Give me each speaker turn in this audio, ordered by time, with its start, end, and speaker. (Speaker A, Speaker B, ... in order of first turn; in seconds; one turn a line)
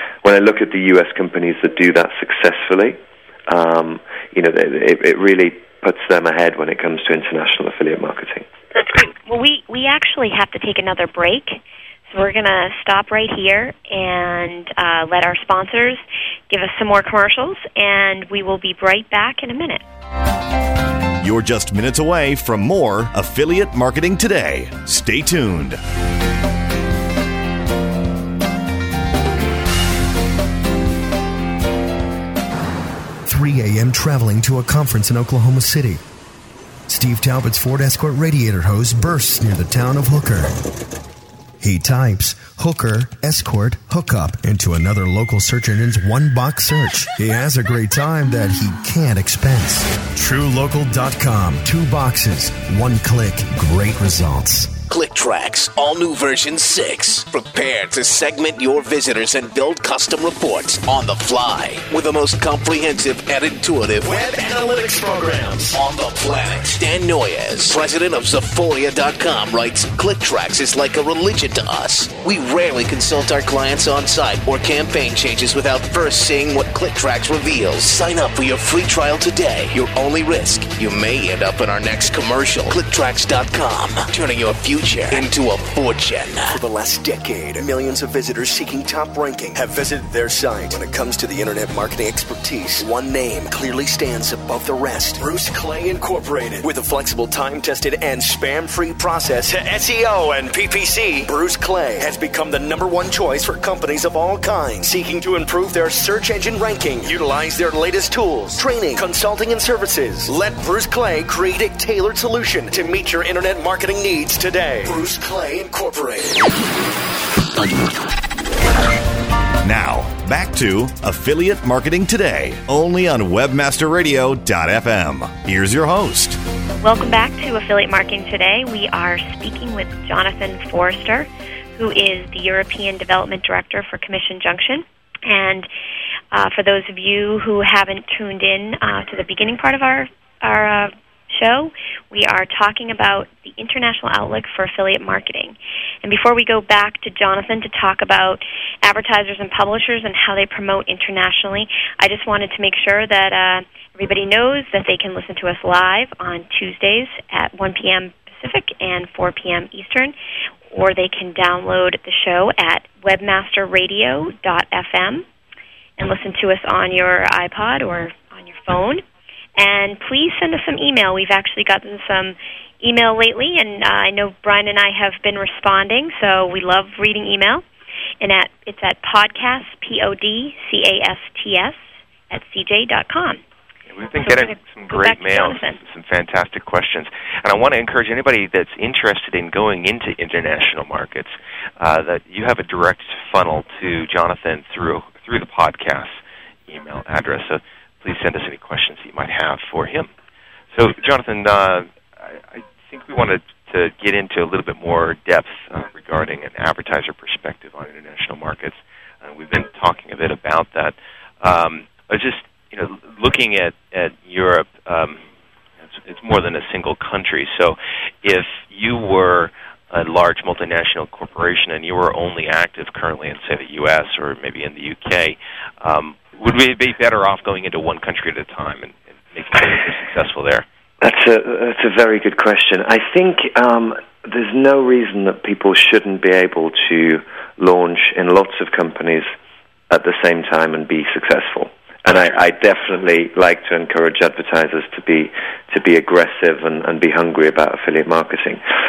Speaker A: 0.2-8.5
Speaker B: 8.9-19.8
Speaker C: 21.2-25.8
Speaker D: 33.2-36.0
Speaker D: 36.9-40.6
Speaker D: 41.6-54.8
Speaker E: 54.9-64.6
Speaker F: 64.1-65.7
Speaker E: 65.7-86.6
Speaker F: 86.5-116.4
Speaker C: 119.6-126.4
Speaker B: 126.8-135.7
Speaker B: 136.3-160.1
Speaker B: 160.7-165.2
Speaker B: 166.0-169.0
Speaker B: 169.6-177.6
Speaker B: 178.2-183.4
Speaker G: 183.9-196.2
Speaker B: 184.2-185.8
Speaker G: 196.7-200.1
Speaker G: 200.7-215.2
Speaker G: 215.9-230.6
Speaker A: 231.0-239.3
Speaker A: 239.9-248.6